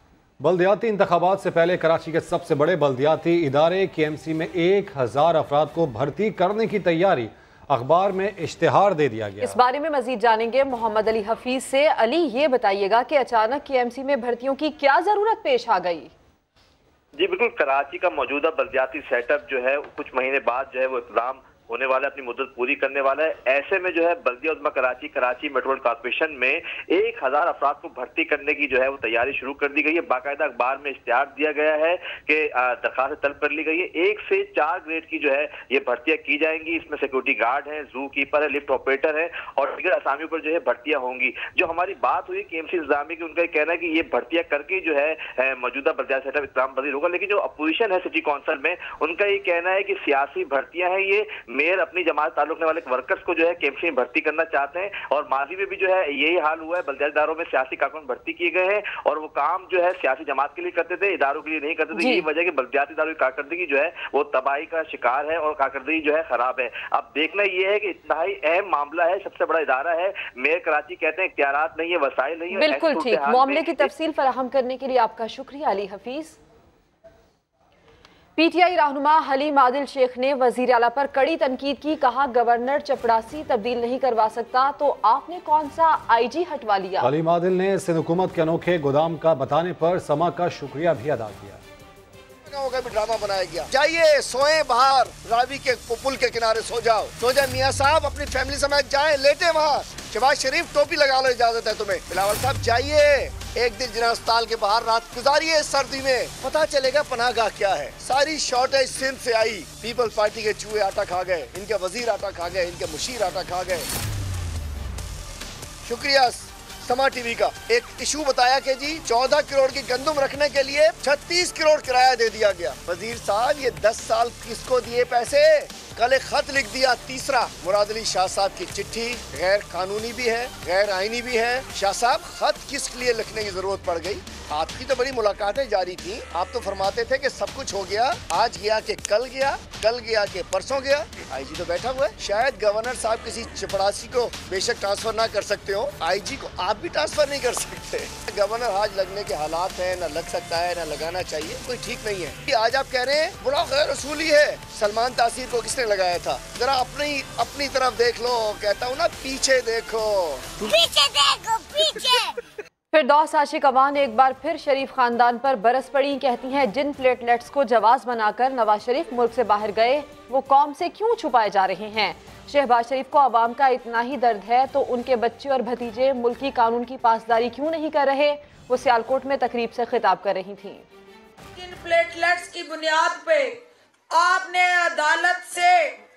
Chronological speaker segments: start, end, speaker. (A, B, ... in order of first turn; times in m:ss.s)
0:00.4-0:09.6 A
0:09.4-0:16.1 B
0:17.1-1:13.9 C
1:02.0-1:02.2 B
1:12.5-1:16.4 B
1:18.4-1:27.1 B
1:27.0-1:31.6 A
1:32.5-1:53.9 D
1:55.8-2:40.5 D
2:42.9-3:00.8 B
3:01.6-3:03.6 E
3:04.1-3:06.0 E